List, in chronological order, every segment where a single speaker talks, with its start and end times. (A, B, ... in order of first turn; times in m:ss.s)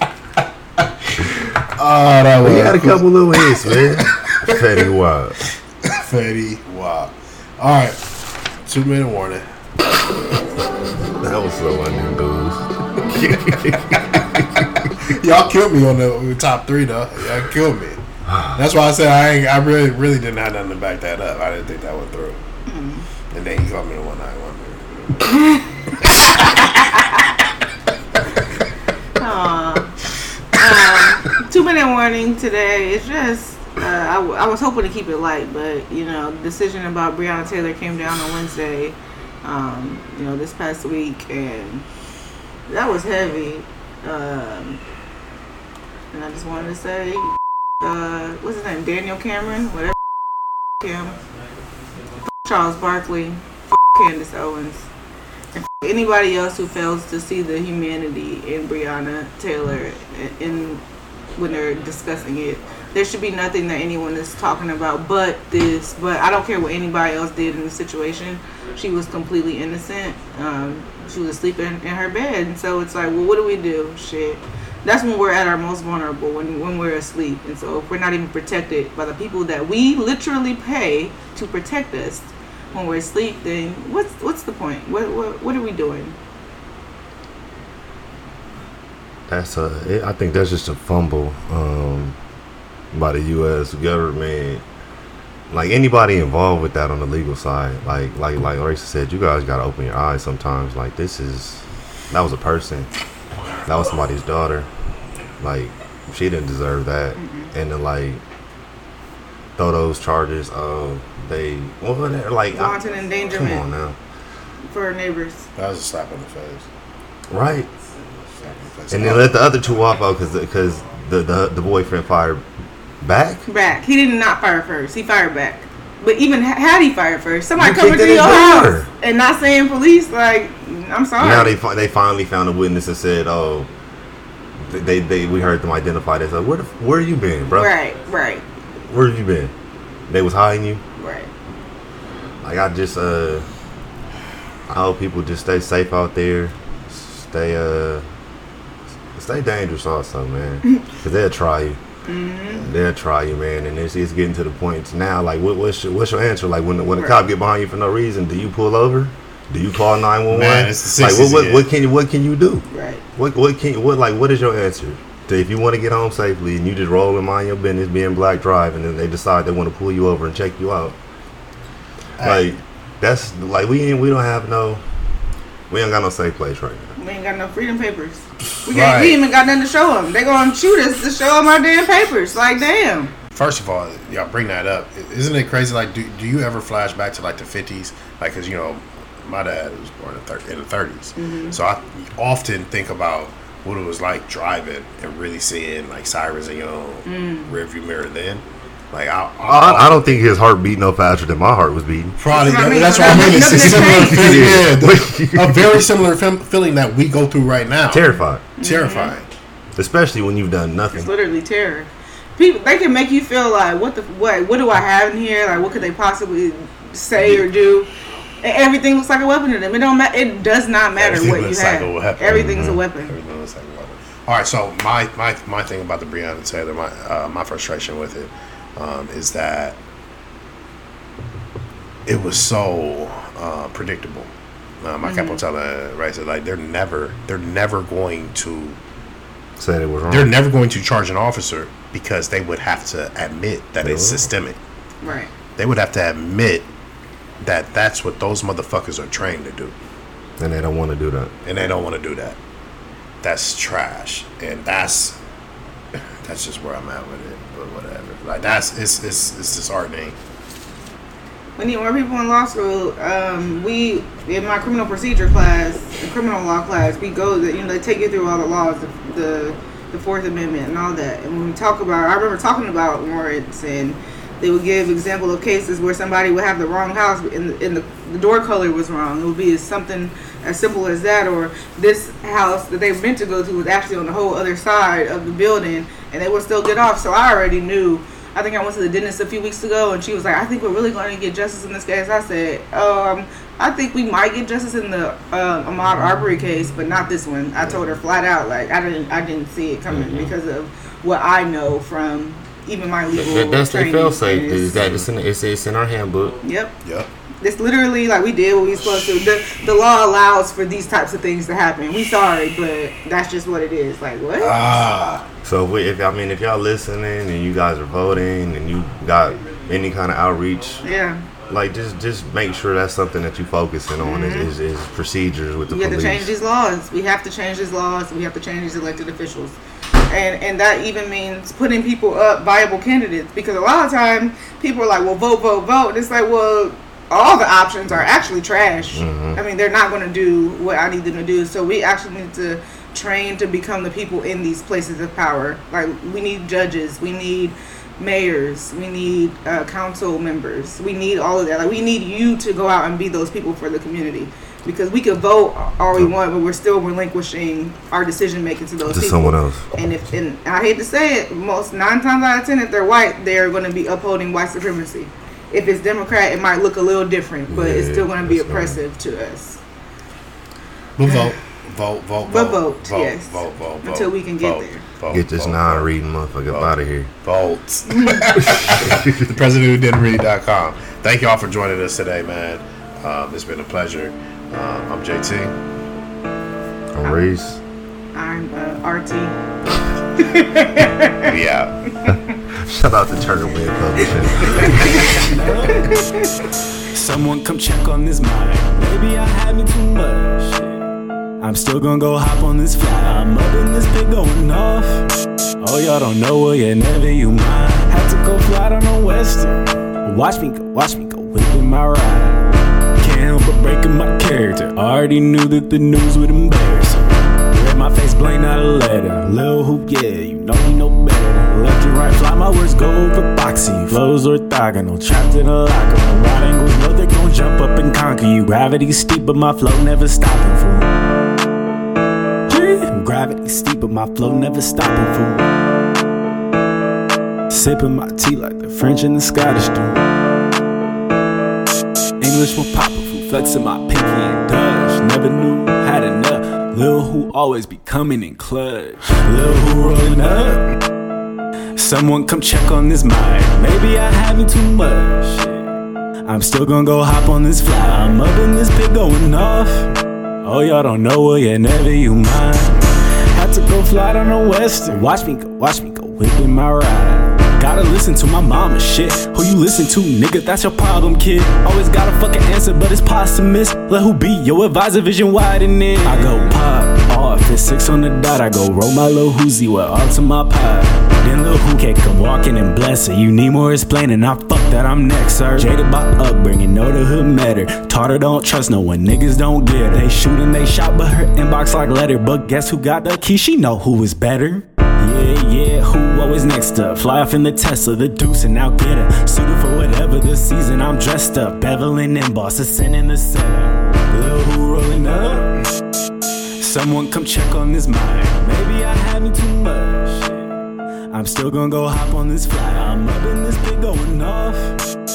0:01.0-0:04.6 A
0:02.4-0:05.4 B
0:05.8-0:09.4 A
0:11.1-0:14.4 B
0:13.2-0:18.0 A
0:18.3-0:18.5 B
0:18.6-0:22.4 A
0:22.7-0:23.1 C
0:23.3-0:24.8 A
0:25.2-0:27.3 C
0:26.0-0:27.0 A
0:29.2-0:30.0 C
0:30.5-0:41.8 C
0:42.7-0:44.8 C
0:46.1-0:50.1 C
0:50.7-0:51.2 C
0:52.2-0:54.9 C
0:55.6-1:00.8 C
1:01.3-1:26.2 C
1:29.3-1:32.2 B
1:32.9-1:34.6 B
1:35.5-1:42.9 B
1:43.6-1:44.7 B
1:45.4-1:48.2 B
1:47.2-1:47.5 C
1:49.6-1:52.8 B
1:52.5-1:53.6 C
1:53.3-1:54.0 B
1:54.7-1:55.5 C
1:55.6-1:56.7 A
1:57.3-1:57.7 B
1:58.2-1:59.3 A
1:58.9-2:02.4 B
2:03.0-2:03.4 B
2:03.5-2:11.6 C
2:07.6-2:08.9 B
2:11.2-2:13.7 B
2:14.6-2:17.8 B
2:17.5-2:18.4 C
2:18.9-2:19.5 B
2:20.1-2:20.8 B
2:21.0-2:21.3 C
2:22.4-2:23.4 B
2:24.7-2:28.0 B
2:29.1-2:31.8 B
2:32.1-2:32.7 C
2:32.5-2:42.6 B
2:40.3-2:41.7 A
2:42.7-2:43.0 C
2:43.1-2:51.0 B
2:52.2-2:52.5 A
2:52.2-2:54.8 B
2:55.7-2:56.9 B
2:57.0-3:03.1 C
2:58.7-2:59.2 A
3:03.3-3:20.2 A
3:11.2-3:11.6 C
3:17.0-3:17.5 C
3:19.4-3:22.2 B
3:22.2-3:28.1 A
3:22.3-3:24.6 C
3:23.1-3:25.8 B
3:27.9-3:28.5 B
3:28.6-3:29.1 C
3:28.6-3:29.3 A
3:29.8-3:31.1 B
3:31.0-3:37.9 C
3:38.4-3:43.1 C
3:41.0-3:49.8 A
3:42.3-3:42.8 B
3:52.0-3:54.3 A
3:54.8-3:58.8 A
3:55.0-3:55.4 C
3:59.6-4:00.3 B
4:00.1-4:04.6 A
4:03.8-4:04.3 B
4:05.0-4:05.3 C
4:05.6-4:06.7 A
4:07.4-4:09.7 A
4:10.4-4:11.3 B
4:11.4-4:12.4 A
4:13.2-4:15.2 A
4:16.2-4:20.2 A
4:21.6-5:05.0 C
4:59.9-5:00.3 B
5:03.1-5:06.4 B
5:06.4-5:06.7 C
5:07.4-5:14.6 C
5:14.4-5:15.3 A
5:15.4-5:20.8 B
5:20.8-5:21.2 C
5:21.5-5:26.3 B
5:24.0-5:24.5 C
5:25.7-5:29.6 C
5:30.1-6:09.6 C
5:38.9-5:39.4 B
5:58.9-5:59.6 B
6:07.5-6:08.8 B
6:11.0-6:15.9 A
6:11.0-6:11.3 C
6:12.3-6:14.8 C
6:15.1-6:17.1 B
6:16.5-6:25.5 A
6:17.9-6:18.3 C
6:18.8-6:19.1 B
6:27.0-6:27.6 B
6:28.1-6:29.4 C
6:30.2-6:31.3 C
6:31.2-6:31.8 A
6:32.1-6:35.2 B
6:34.5-6:35.2 C
6:35.1-6:36.0 D
6:35.7-6:36.3 C
6:36.9-6:40.9 D
6:41.4-6:45.1 D
6:45.6-6:52.5 D
6:53.0-7:10.9 D
7:12.5-7:15.5 D
7:17.5-7:20.0 D
7:22.2-7:30.7 D
7:31.8-7:35.7 D
7:36.3-8:25.5 D
8:26.6-8:30.6 D
8:31.1-8:34.8 D